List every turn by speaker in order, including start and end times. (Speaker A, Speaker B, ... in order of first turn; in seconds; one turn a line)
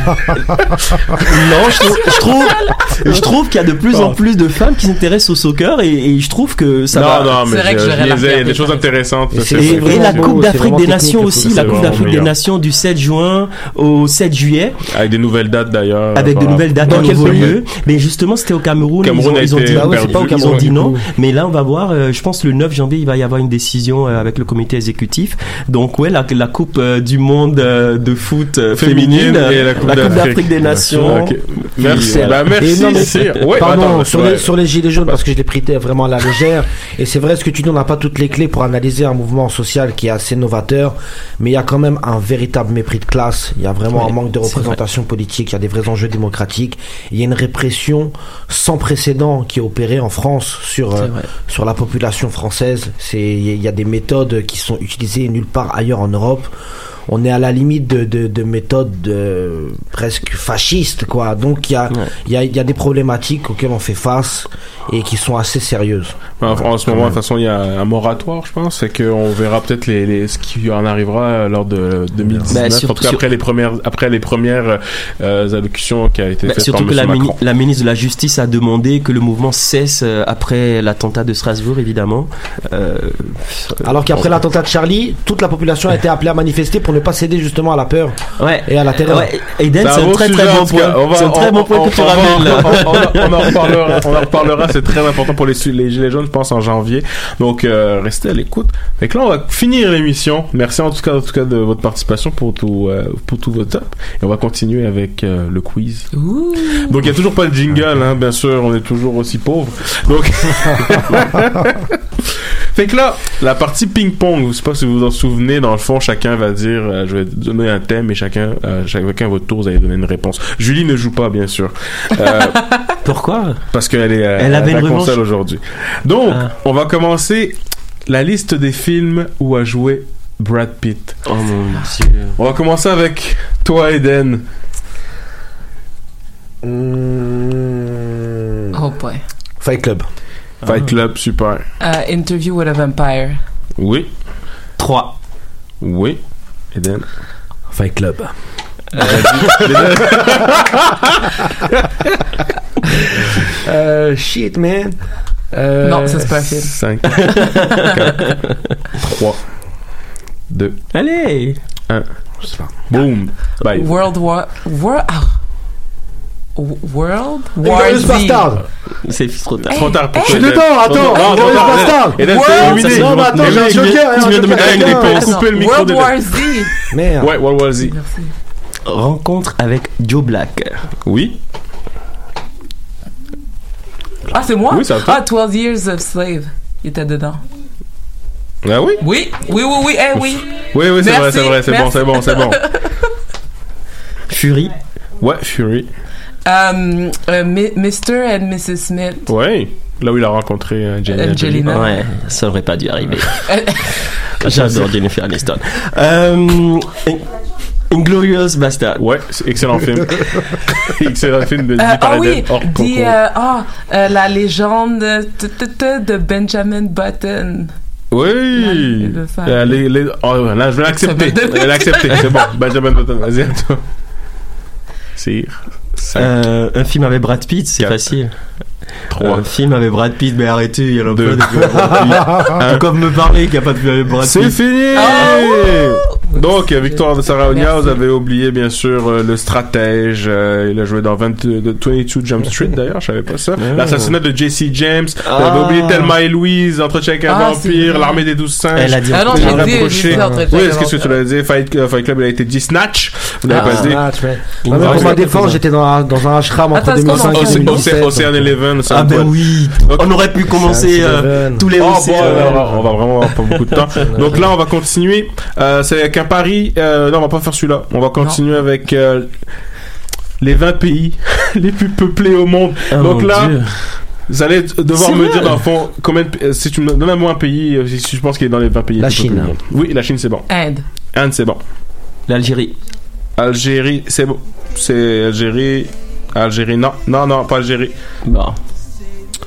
Speaker A: 1.2-1.5
Speaker B: 1.2-7.3
Speaker C: 2.4-2.9
Speaker A: 3.9-4.2
Speaker A: 6.9-10.6
Speaker C: 7.4-8.8
Speaker D: 9.3-12.2
Speaker B: 9.5-14.8
Speaker A: 11.3-12.3
Speaker A: 14.9-17.6
Speaker B: 16.1-33.5
Speaker D: 16.8-17.6
Speaker A: 19.0-20.9
Speaker D: 19.7-20.9
Speaker A: 28.7-34.5
Speaker D: 30.8-56.5
Speaker B: 43.9-44.8
Speaker B: 51.0-51.3
Speaker D: 57.1-67.2
Speaker A: 66.4-77.4
Speaker D: 72.2-72.6
Speaker B: 72.5-73.2
Speaker B: 76.4-84.4
Speaker D: 83.8-89.3
Speaker B: 88.4-94.3
Speaker A: 89.8-106.1
Speaker C: 106.1-106.9
Speaker A: 106.7-112.0
Speaker A: 112.7-122.6
Speaker B: 123.0-123.6
Speaker A: 123.7-131.2
Speaker B: 124.4-125.2
Speaker B: 126.3-126.5
Speaker B: 131.3-132.4
Speaker A: 132.3-134.4
Speaker D: 136.6-138.7
Speaker C: 138.7-139.2
Speaker D: 139.6-140.1
Speaker A: 140.6-141.6
Speaker B: 140.7-140.9
Speaker C: 141.8-143.4
Speaker A: 143.8-144.1
Speaker D: 144.8-145.1
Speaker A: 145.8-146.2
Speaker A: 146.7-147.1
Speaker D: 147.7-148.3
Speaker A: 149.0-150.9
Speaker D: 149.1-149.9
Speaker D: 153.6-155.0
Speaker D: 155.5-156.4
Speaker C: 155.8-156.7
Speaker A: 156.7-158.3
Speaker B: 157.2-157.9
Speaker C: 157.3-157.9
Speaker A: 159.0-159.4
Speaker A: 160.5-160.8
Speaker B: 160.9-161.6
Speaker D: 162.4-162.7
Speaker A: 162.8-163.9
Speaker C: 163.7-165.4
Speaker C: 166.6-168.5
Speaker D: 167.6-168.6
Speaker B: 169.1-169.8
Speaker C: 169.7-172.8
Speaker A: 169.7-176.5
Speaker D: 170.2-175.3
Speaker B: 172.4-175.1
Speaker C: 175.0-176.7
Speaker D: 176.9-177.4
Speaker A: 177.2-177.9
Speaker C: 177.8-178.3
Speaker B: 178.8-180.9
Speaker A: 181.0-181.3
Speaker C: 184.3-187.4
Speaker A: 184.7-185.2
Speaker A: 188.6-189.0
Speaker C: 189.0-193.1
Speaker A: 190.7-192.6
Speaker B: 194.3-194.7
Speaker A: 195.2-195.9
Speaker C: 196.4-199.3
Speaker A: 199.3-202.0
Speaker C: 201.1-201.9
Speaker B: 201.7-203.4
Speaker C: 203.5-204.1
Speaker B: 204.4-207.2
Speaker A: 204.6-204.9
Speaker B: 207.9-209.0
Speaker A: 209.0-213.1
Speaker C: 211.8-217.7
Speaker A: 218.1-223.8
Speaker C: 218.5-219.7
Speaker C: 220.9-222.3
Speaker A: 225.2-226.3
Speaker B: 226.1-228.3
Speaker A: 229.1-229.4
Speaker B: 229.2-235.3
Speaker A: 231.1-232.9
Speaker A: 234.2-254.0
Speaker C: 234.9-238.0
Speaker B: 243.6-244.2
Speaker B: 245.2-246.1
Speaker C: 247.3-248.2
Speaker B: 248.7-250.0
Speaker C: 249.1-251.1
Speaker D: 250.0-250.4
Speaker B: 253.5-254.0
Speaker D: 253.5-258.5
Speaker B: 254.6-255.6
Speaker A: 254.7-255.4
Speaker C: 256.7-257.9
Speaker A: 257.1-259.3
Speaker B: 258.9-264.5
Speaker A: 259.9-260.1
Speaker D: 260.5-261.7
Speaker A: 261.8-269.4
Speaker D: 262.2-262.6
Speaker D: 264.1-264.4
Speaker A: 270.4-280.4
Speaker B: 272.9-274.1
Speaker B: 274.9-275.6
Speaker D: 279.0-279.5
Speaker B: 279.0-279.5
Speaker C: 280.5-280.8
Speaker A: 281.1-281.6
Speaker B: 282.3-282.8
Speaker A: 283.4-287.9
Speaker B: 288.2-288.6